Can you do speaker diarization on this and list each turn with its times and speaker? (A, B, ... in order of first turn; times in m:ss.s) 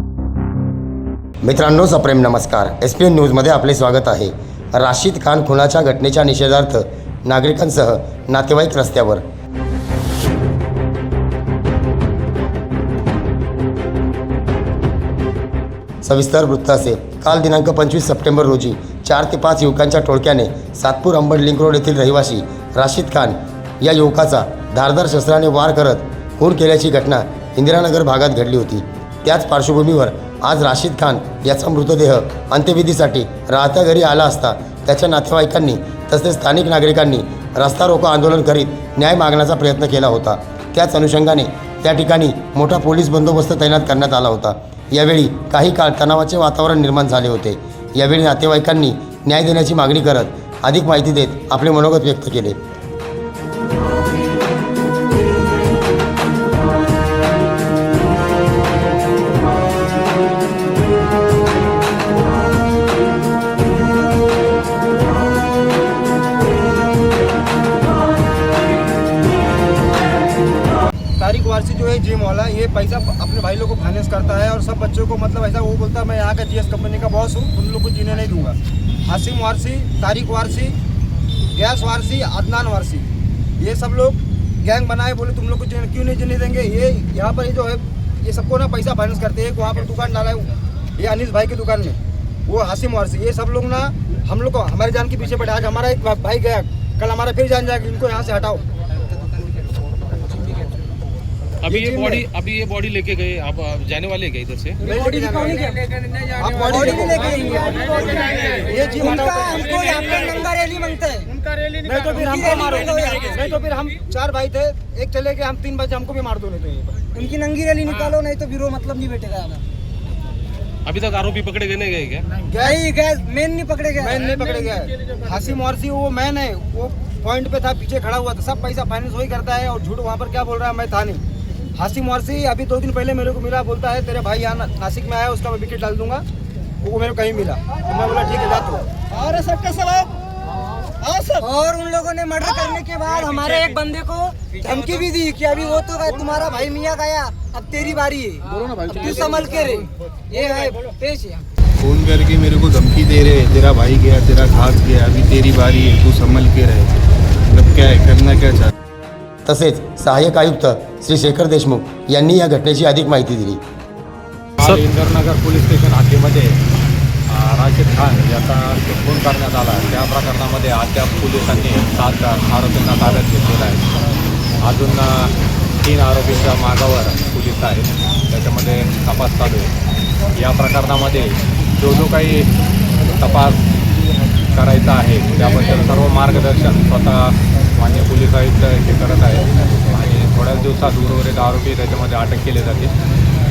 0:01.4-0:09.2 A
0:16.0-0:52.6 A
1:11.2-1:20.8 B
1:21.5-1:23.1 B
1:23.6-1:38.6 B
1:41.7-1:42.2 B
1:41.7-1:44.8 C
1:44.8-1:45.7 B
1:44.8-1:45.9 D
1:46.2-1:50.2 B
1:46.6-1:51.3 D
1:51.8-1:57.1 B
1:52.1-1:53.4 D
1:57.1-1:59.6 D
2:00.9-2:02.2 C
2:02.4-2:02.8 B
2:02.6-2:04.2 D
2:04.0-2:11.2 B
2:11.8-2:16.2 B
2:16.8-2:18.9 B
2:19.2-2:20.1 D
2:21.4-2:31.5 D
2:31.8-2:38.7 E
2:39.4-2:43.6 A
2:44.6-2:46.6 F
2:47.3-2:53.9 F
2:54.6-2:59.7 F
3:00.4-3:02.5 F
3:03.2-3:03.6 F
3:04.5-3:12.9 F